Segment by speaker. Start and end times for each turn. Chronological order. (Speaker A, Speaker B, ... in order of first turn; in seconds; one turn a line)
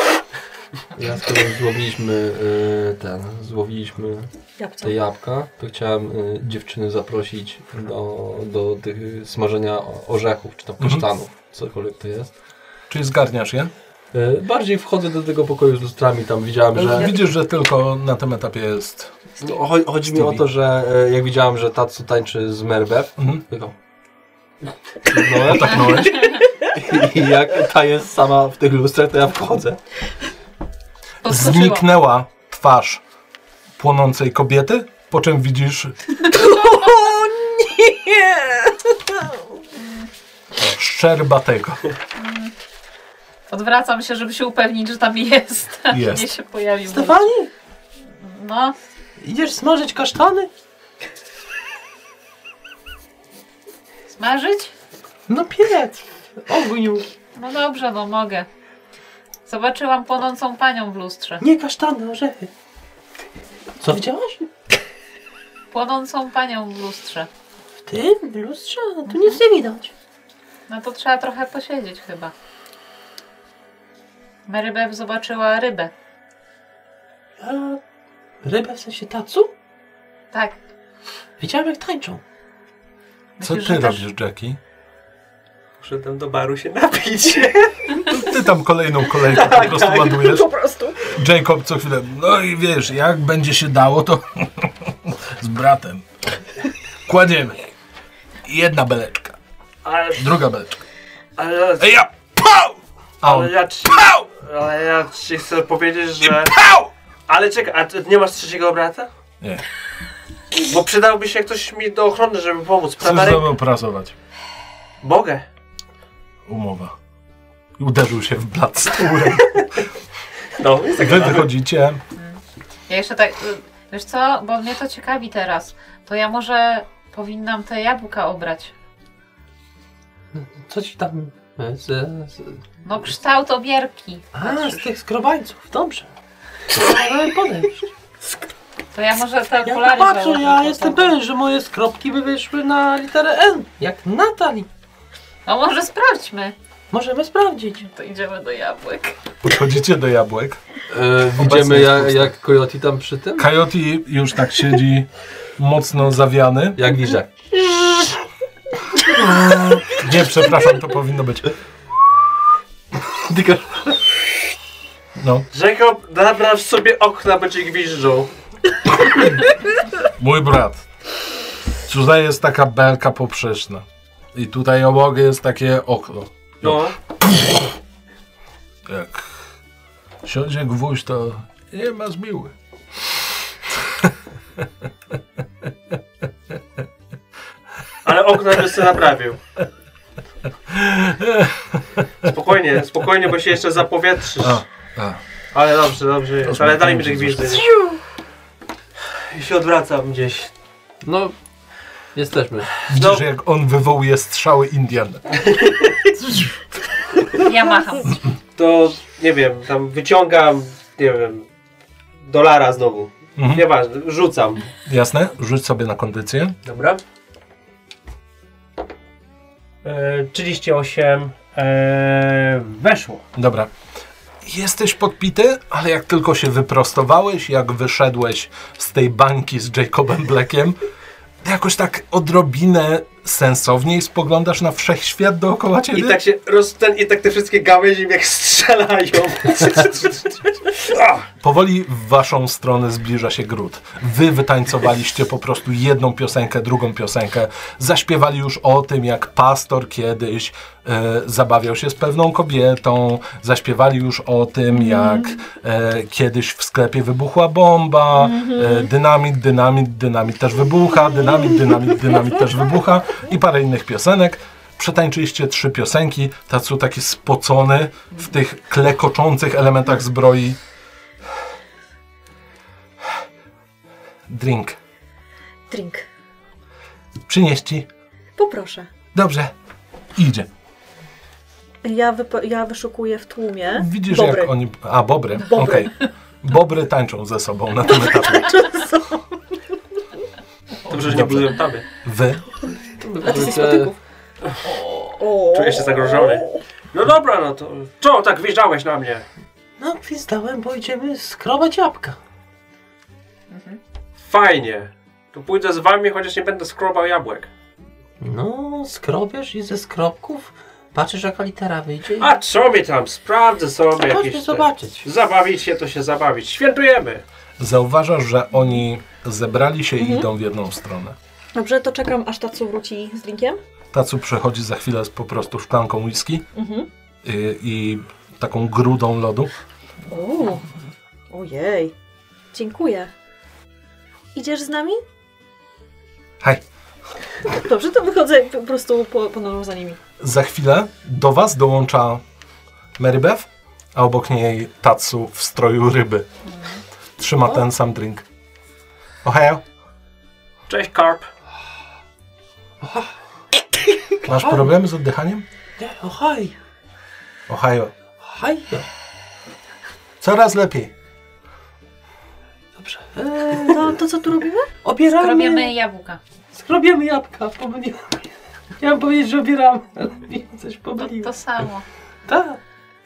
Speaker A: 0.9-4.3
Speaker B: 4.6-5.0
Speaker A: 4.8-12.3
Speaker C: 10.8-11.1
Speaker C: 12.9-13.7
Speaker A: 14.1-17.1
Speaker C: 16.7-19.1
Speaker A: 19.4-23.7
Speaker C: 20.0-20.4
Speaker C: 23.2-23.4
Speaker A: 25.1-29.8
Speaker C: 25.4-26.3
Speaker D: 31.2-31.9
Speaker C: 31.2-33.0
Speaker C: 33.8-36.1
Speaker B: 36.2-39.4
Speaker C: 40.6-41.8
Speaker D: 42.1-42.5
Speaker D: 43.5-47.3
Speaker C: 45.9-46.3
Speaker E: 46.9-47.5
Speaker D: 48.1-48.7
Speaker E: 49.2-50.5
Speaker D: 54.1-54.7
Speaker E: 55.3-57.0
Speaker D: 57.4-58.5
Speaker D: 59.5-61.4
Speaker E: 61.4-62.5
Speaker E: 63.8-64.5
Speaker D: 65.7-67.3
Speaker E: 67.8-69.9
Speaker D: 69.1-69.4
Speaker D: 70.7-72.3
Speaker D: 74.5-75.9
Speaker E: 77.4-77.8
Speaker E: 78.4-79.5
Speaker D: 80.3-80.6
Speaker E: 81.4-82.2
Speaker D: 83.4-84.0
Speaker C: 83.4-84.6
Speaker F: 85.8-88.2
Speaker C: 88.0-90.5
Speaker F: 89.2-90.2
Speaker B: 89.8-91.2
Speaker C: 91.0-96.0
Speaker C: 97.0-97.7
Speaker C: 98.4-99.3
Speaker F: 99.8-100.3
Speaker C: 100.2-100.8
Speaker F: 101.4-101.9
Speaker C: 101.8-104.2
Speaker F: 103.2-106.5
Speaker C: 106.2-106.9
Speaker F: 107.3-109.1
Speaker F: 110.6-113.5
Speaker C: 113.0-114.1
Speaker F: 115.0-115.4
Speaker C: 116.5-116.9
Speaker C: 117.8-119.7
Speaker F: 120.6-121.5
Speaker C: 121.0-122.0
Speaker D: 122.1-128.7
Speaker E: 130.3-132.5
Speaker D: 132.8-134.9
Speaker E: 134.3-136.1
Speaker E: 136.7-137.8
Speaker D: 138.9-141.2
Speaker E: 139.7-144.7
Speaker D: 145.4-146.5
Speaker E: 146.9-147.8
Speaker D: 147.8-149.2
Speaker C: 149.4-150.6
Speaker A: 150.9-153.5
Speaker C: 151.4-152.3
Speaker C: 153.4-156.9
Speaker A: 156.8-157.3
Speaker C: 159.0-161.5
Speaker A: 163.0-164.0
Speaker C: 165.2-165.4
Speaker F: 165.5-168.3
Speaker C: 170.1-170.8
Speaker C: 171.8-177.7
Speaker F: 176.6-176.9
Speaker C: 178.8-179.4
Speaker C: 180.2-182.5
Speaker C: 183.7-184.1
Speaker F: 188.0-189.4
Speaker C: 190.7-192.1
Speaker F: 192.2-194.6
Speaker C: 194.4-195.2
Speaker F: 195.5-197.7
Speaker C: 196.4-197.7
Speaker F: 199.3-200.5
Speaker A: 201.0-201.3
Speaker A: 202.1-202.7
Speaker C: 202.9-205.4
Speaker F: 202.9-203.2
Speaker F: 205.4-205.9
Speaker D: 207.4-208.2
Speaker F: 208.6-211.4
Speaker F: 212.2-214.7
Speaker C: 213.4-213.6
Speaker C: 214.8-216.5
Speaker F: 216.6-217.0
Speaker F: 219.8-223.2
Speaker C: 223.3-223.7
Speaker C: 224.4-230.8
Speaker C: 231.4-236.2
Speaker F: 235.9-241.2
Speaker C: 241.4-270.6
Speaker B: 254.9-255.2
Speaker B: 258.1-258.9
Speaker C: 274.3-274.8
Speaker B: 275.7-276.0
Speaker C: 277.3-277.9
Speaker B: 278.4-278.9
Speaker C: 279.1-279.5
Speaker C: 280.1-280.5
Speaker B: 281.8-284.5
Speaker C: 283.7-288.7
Speaker B: 285.4-285.9
Speaker B: 287.9-289.4
Speaker F: 290.9-291.8
Speaker C: 290.9-292.5
Speaker E: 293.1-293.7
Speaker A: 293.1-293.9
Speaker B: 293.2-293.9
Speaker B: 294.7-296.6
Speaker F: 295.5-299.2
Speaker E: 299.8-302.2
Speaker D: 303.5-303.8
Speaker F: 304.2-307.5
Speaker E: 308.2-312.3
Speaker F: 312.2-317.2
Speaker E: 314.1-315.0
Speaker C: 317.6-321.1
Speaker B: 320.0-320.2
Speaker B: 321.5-323.6
Speaker C: 323.9-326.4
Speaker B: 326.5-326.9
Speaker C: 327.2-329.5
Speaker B: 330.1-330.7
Speaker B: 331.3-331.9
Speaker B: 332.5-333.1
Speaker B: 334.3-335.0
Speaker B: 337.5-340.0
Speaker C: 340.2-342.2
Speaker C: 343.0-346.3
Speaker D: 346.5-346.8
Speaker C: 347.2-348.2
Speaker C: 349.2-349.6
Speaker F: 350.7-351.3
Speaker E: 352.8-353.1
Speaker C: 354.2-355.4
Speaker E: 354.3-354.7
Speaker E: 355.8-356.5
Speaker C: 357.5-357.9
Speaker E: 358.2-358.9
Speaker C: 360.2-360.9
Speaker E: 362.8-364.0
Speaker B: 363.7-364.7
Speaker E: 364.8-365.7
Speaker D: 365.1-366.2
Speaker E: 366.5-371.3
Speaker D: 371.0-371.8
Speaker E: 372.2-372.6